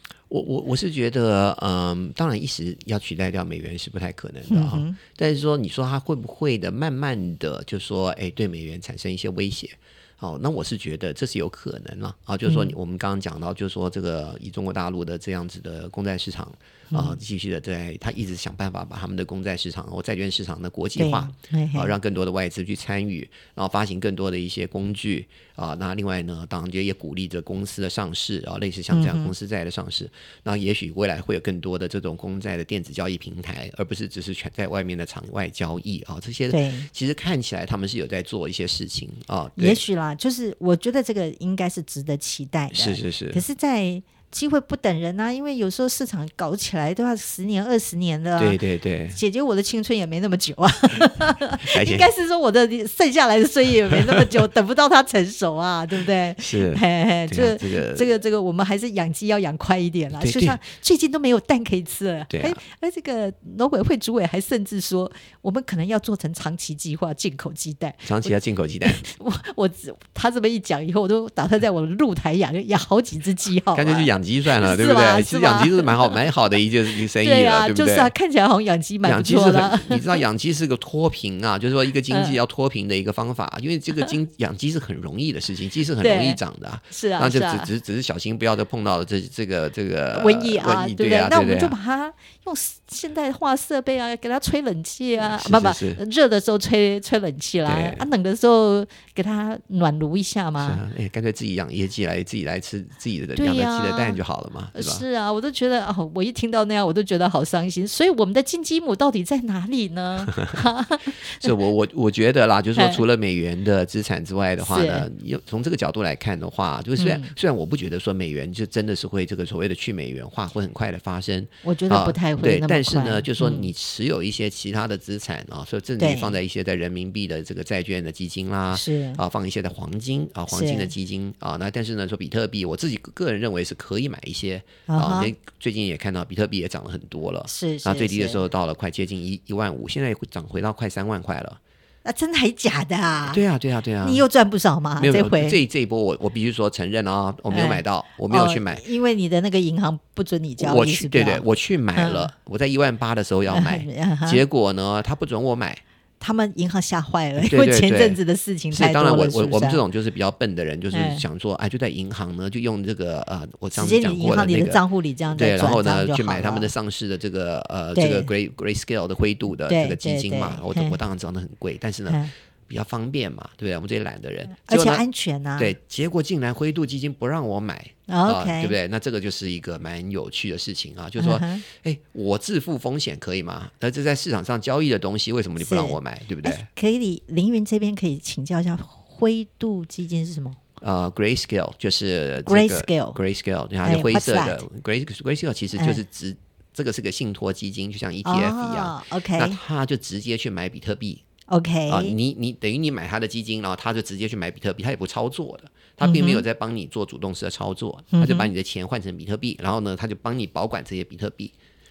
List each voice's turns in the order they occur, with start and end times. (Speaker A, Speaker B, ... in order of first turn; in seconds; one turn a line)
Speaker A: 0.3-39.8
Speaker B: 4.5-5.0
Speaker B: 12.4-12.8
Speaker B: 16.9-17.2
Speaker B: 21.0-21.9
Speaker B: 28.9-29.3
Speaker B: 36.5-36.9
Speaker B: 39.6-48.6
Speaker A: 42.7-43.4
Speaker A: 48.4-49.2
Speaker B: 49.1-76.2
Speaker A: 51.6-52.1
Speaker A: 53.9-54.3
Speaker A: 56.4-58.1
Speaker A: 60.2-60.6
Speaker A: 62.3-62.6
Speaker A: 68.0-69.0
Speaker A: 73.7-78.1
Speaker B: 77.1-80.2
Speaker A: 79.0-91.8
Speaker B: 82.1-82.4
Speaker B: 86.0-86.4
Speaker B: 86.9-87.7
Speaker B: 90.1-100.8
Speaker A: 95.2-96.0
Speaker A: 97.7-98.1
Speaker A: 100.6-105.0
Speaker B: 103.4-104.2
Speaker B: 104.8-111.5
Speaker A: 111.3-141.6
Speaker B: 112.8-113.0
Speaker B: 114.6-115.1
Speaker B: 117.0-117.3
Speaker B: 121.6-123.7
Speaker B: 126.0-126.4
Speaker B: 128.7-129.2
Speaker B: 130.5-130.9
Speaker B: 134.9-135.3
Speaker B: 137.5-138.4
Speaker B: 142.0-143.4
Speaker A: 143.3-144.2
Speaker B: 144.0-145.6
Speaker A: 145.0-148.8
Speaker B: 147.5-152.3
Speaker A: 150.6-155.8
Speaker B: 153.5-154.4
Speaker B: 156.2-159.8
Speaker A: 157.4-158.2
Speaker A: 158.7-164.8
Speaker B: 160.9-161.2
Speaker B: 163.7-166.7
Speaker A: 165.3-175.0
Speaker B: 167.9-168.3
Speaker B: 169.7-171.0
Speaker B: 174.6-175.8
Speaker A: 175.6-186.7
Speaker B: 178.1-178.8
Speaker B: 181.2-181.6
Speaker B: 185.6-190.6
Speaker A: 190.8-201.2
Speaker B: 192.4-193.2
Speaker B: 193.8-194.6
Speaker B: 195.8-196.0
Speaker B: 198.2-199.6
Speaker B: 201.5-202.1
Speaker A: 201.9-211.5
Speaker B: 206.0-206.4
Speaker B: 208.1-208.5